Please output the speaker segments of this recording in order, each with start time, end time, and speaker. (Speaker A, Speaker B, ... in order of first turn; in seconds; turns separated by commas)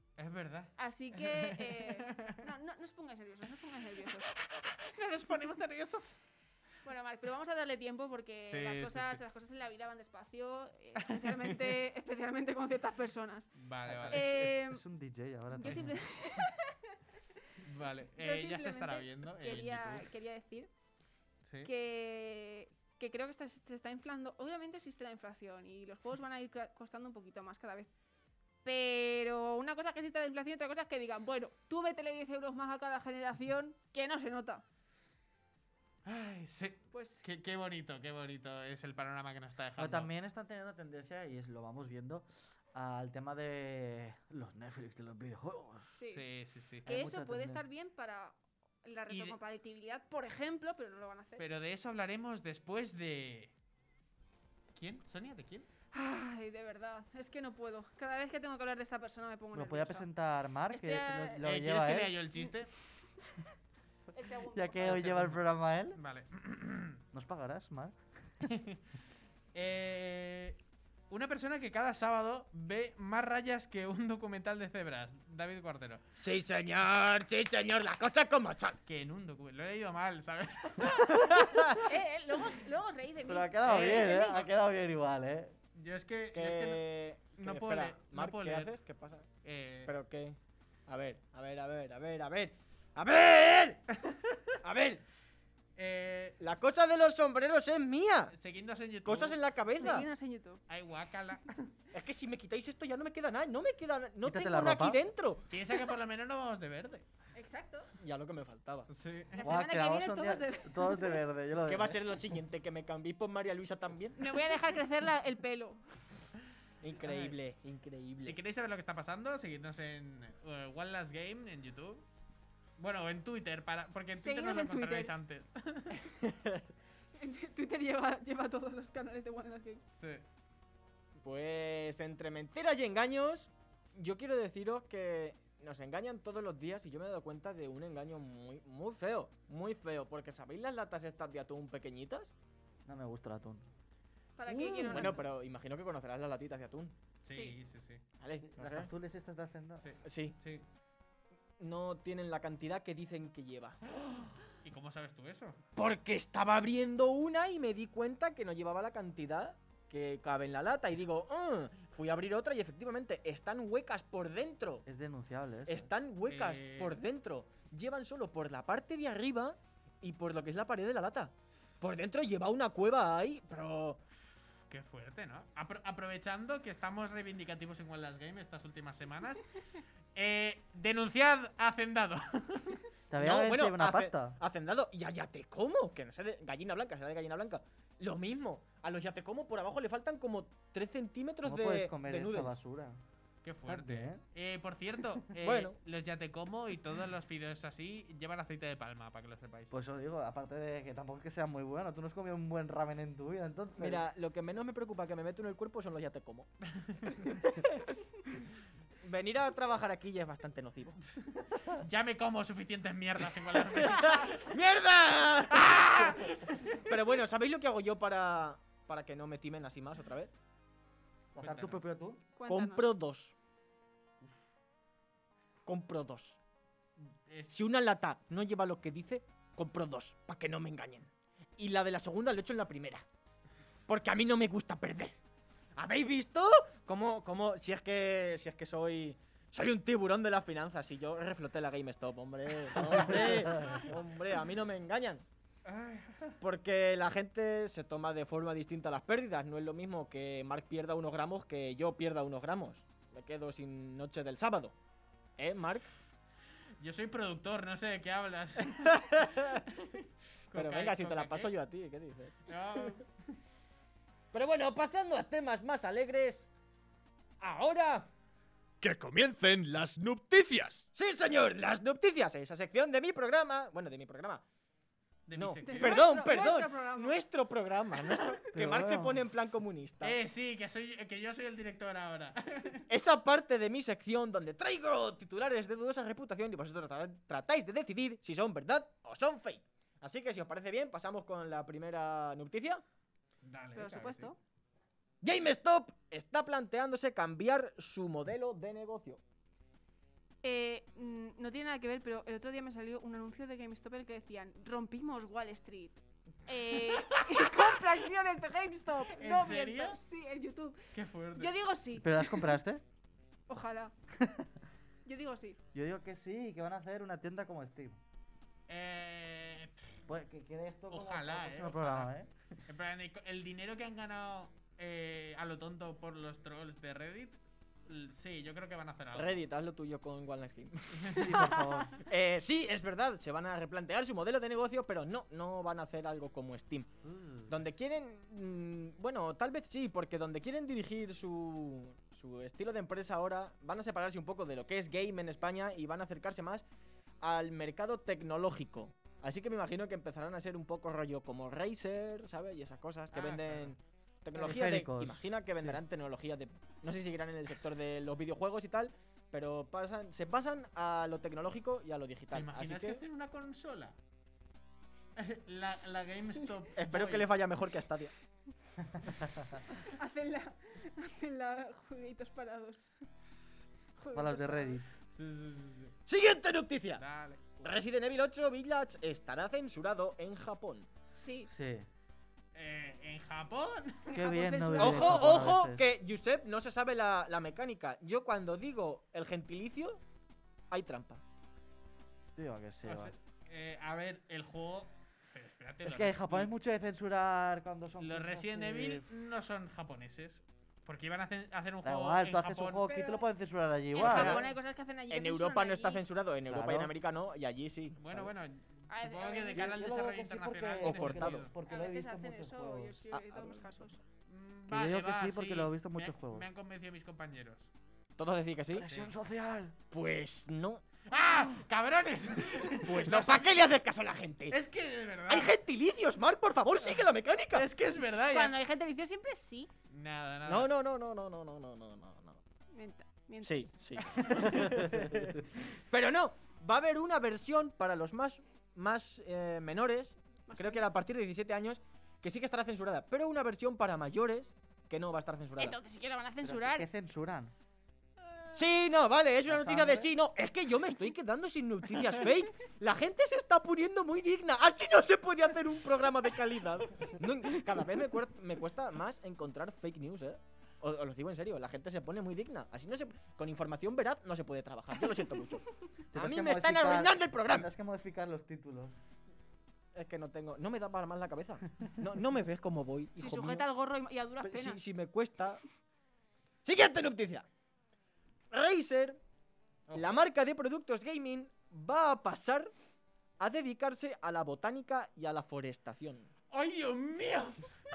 Speaker A: 0.2-2.4, Speaker B: 0.8-4.3, Speaker A: 4.6-6.2, Speaker B: 6.8-13.5, Speaker A: 8.4-9.2, Speaker A: 11.0-11.8, Speaker A: 13.6-14.4, Speaker C: 13.9-16.0, Speaker B: 14.1-14.8, Speaker B: 15.5-17.0, Speaker A: 15.7-16.4, Speaker A: 17.6-20.1, Speaker B: 18.2-20.7, Speaker A: 21.4-21.7, Speaker B: 21.6-27.9, Speaker B: 28.6-34.6, Speaker A: 36.0-40.1, Speaker B: 36.9-37.3, Speaker C: 39.8-46.0, Speaker B: 45.9-46.2, Speaker A: 46.1-46.9, Speaker C: 46.9-47.6, Speaker B: 46.9-51.4, Speaker A: 49.1-49.4, Speaker A: 51.4-53.5, Speaker A: 54.7-55.7, Speaker B: 55.9-60.1, Speaker C: 59.5-62.2, Speaker B: 60.7-61.4, Speaker A: 61.4-62.7, Speaker B: 64.1-65.1, Speaker C: 64.5-66.0, Speaker A: 64.8-67.0, Speaker C: 67.1-68.5, Speaker A: 68.4-68.8, Speaker A: 69.5-70.6, Speaker A: 71.1-76.0, Speaker D: 76.2-78.8, Speaker A: 78.9-81.8, Speaker D: 81.1-81.8, Speaker B: 81.8-84.4, Speaker C: 83.3-85.5, Speaker A: 83.6-84.4, Speaker A: 85.8-88.7, Speaker D: 86.3-89.3, Speaker A: 89.4-89.9, Speaker D: 89.9-93.8, Speaker D: 94.6-95.0, Speaker A: 95.8-96.4, Speaker D: 96.4-98.3, Speaker A: 98.3-99.4, Speaker D: 99.0-100.1, Speaker B: 99.7-100.6, Speaker A: 100.7-101.7, Speaker D: 101.9-105.5, Speaker C: 104.2-105.0, Speaker A: 105.5-107.1, Speaker B: 107.3-107.9, Speaker D: 108.0-108.9, Speaker A: 108.9-109.4, Speaker B: 109.3-111.2, Speaker C: 109.4-112.1, Speaker D: 111.7-114.3, Speaker B: 114.2-115.8, Speaker D: 116.8-118.4, Speaker A: 117.0-117.3, Speaker A: 118.2-122.1, Speaker A: 122.8-126.0, Speaker B: 124.2-125.1, Speaker D: 126.2-126.6, Speaker B: 127.2-129.8, Speaker A: 130.0-130.2, Speaker D: 131.2-142.3, Speaker C: 142.9-143.7, Speaker B: 144.4-145.2, Speaker D: 144.9-147.0, Speaker A: 147.2-148.0, Speaker B: 147.3-147.6, Speaker D: 148.2-148.9, Speaker C: 148.4-149.9, Speaker A: 149.8-150.7, Speaker D: 150.0-150.4, Speaker D: 151.6-153.8, Speaker A: 154.2-155.6, Speaker D: 155.8-164.9, Speaker C: 164.9-165.9, Speaker D: 165.7-174.0, Speaker A: 166.3-167.1, Speaker A: 174.7-179.5, Speaker A: 180.2-182.8, Speaker C: 183.1-184.4, Speaker D: 183.2-192.6, Speaker C: 191.4-193.0, Speaker A: 193.4-199.8, Speaker C: 193.7-194.2, Speaker D: 195.4-195.8, Speaker C: 199.7-204.0, Speaker D: 203.8-206.5, Speaker A: 206.9-207.2, Speaker D: 207.3-207.8, Speaker D: 209.0-211.0, Speaker A: 211.7-214.6, Speaker D: 213.8-220.3, Speaker A: 215.5-216.9, Speaker C: 221.3-222.2, Speaker A: 221.4-221.9, Speaker B: 222.4-222.9, Speaker D: 222.5-223.3, Speaker D: 225.7-226.4, Speaker A: 227.0-227.6, Speaker D: 227.5-233.1, Speaker D: 233.9-235.2, Speaker D: 235.8-245.2, Speaker A: 245.7-246.4, Speaker D: 246.4-254.8, Speaker D: 255.4-255.9, Speaker A: 256.8-261.5, Speaker D: 258.7-259.6, Speaker D: 260.5-263.0, Speaker A: 262.5-263.1, Speaker D: 264.3-266.5, Speaker D: 267.4-268.1, Speaker E: 268.8-270.8, Speaker D: 269.3-274.4, Speaker A: 275.3-276.1, Speaker D: 275.3-280.2, Speaker B: 275.6-277.2, Speaker B: 278.0-278.3, Speaker C: 278.5-279.2, Speaker A: 280.0-282.9, Speaker D: 282.9-292.8, Speaker A: 293.4-294.3, Speaker B: 293.8-294.4, Speaker D: 295.2-299.2, Speaker B: 300.4-312.6, Speaker A: 306.9-307.3, Speaker A: 309.1-310.0, Speaker A: 310.9-311.5, Speaker C: 312.0-312.8, Speaker B: 313.5-313.9, Speaker B: 315.1-315.6, Speaker C: 315.7-318.0, Speaker A: 318.7-319.9, Speaker C: 320.1-322.3, Speaker A: 320.9-322.1, Speaker A: 322.7-329.4, Speaker D: 329.1-331.2, Speaker C: 331.1-332.0, Speaker B: 331.4-331.9, Speaker D: 332.0-336.9, Speaker C: 337.0-337.6, Speaker D: 337.5-346.6, Speaker D: 347.2-363.0, Speaker A: 353.1-353.8, Speaker C: 354.4-355.8, Speaker A: 362.3-364.0, Speaker A: 365.2-367.3, Speaker D: 366.8-368.1, Speaker C: 368.9-369.6, Speaker B: 369.7-373.1, Speaker B: 374.0-374.9, Speaker C: 374.1-374.9, Speaker A: 375.1-375.9, Speaker D: 376.1-377.0, Speaker A: 377.0-377.4, Speaker D: 377.6-380.9, Speaker B: 381.1-381.5, Speaker C: 381.5-381.9, Speaker A: 382.6-384.1, Speaker B: 384.1-385.5, Speaker C: 384.1-385.8, Speaker D: 384.8-390.0, Speaker D: 390.7-391.2, Speaker C: 392.4-393.1, Speaker A: 392.9-396.5, Speaker C: 395.8-399.1, Speaker A: 398.0-402.9, Speaker C: 401.8-404.4, Speaker B: 402.9-403.2, Speaker B: 403.9-406.0, Speaker D: 404.0-404.5, Speaker D: 405.1-408.3, Speaker C: 406.5-406.9, Speaker A: 408.0-411.5, Speaker B: 408.9-410.0, Speaker C: 409.5-413.0, Speaker D: 410.8-411.5, Speaker B: 411.7-414.0, Speaker D: 413.1-413.9, Speaker A: 414.3-417.7, Speaker C: 414.7-416.5, Speaker D: 418.2-418.9, Speaker C: 418.8-419.8, Speaker A: 418.8-419.1, Speaker D: 419.9-420.9, Speaker A: 421.1-423.6, Speaker D: 422.8-424.6, Speaker A: 424.5-425.6, Speaker D: 425.3-427.7, Speaker A: 427.5-428.6, Speaker B: 428.3-429.7, Speaker A: 429.9-430.7, Speaker D: 430.4-432.4, Speaker B: 432.7-433.7, Speaker D: 433.4-445.8, Speaker C: 434.5-435.2, Speaker B: 440.5-440.9, Speaker B: 445.6-446.9, Speaker C: 446.4-447.5, Speaker A: 448.3-448.6, Speaker D: 448.6-467.7, Speaker C: 449.5-450.1, Speaker C: 466.1-469.0, Speaker D: 469.9-473.7, Speaker B: 473.2-474.8, Speaker D: 474.4-475.6, Speaker D: 476.6-477.4, Speaker D: 478.5-479.2, Speaker A: 479.9-480.2, Speaker D: 479.9-482.7, Speaker D: 483.4-486.3, Speaker A: 486.5-487.6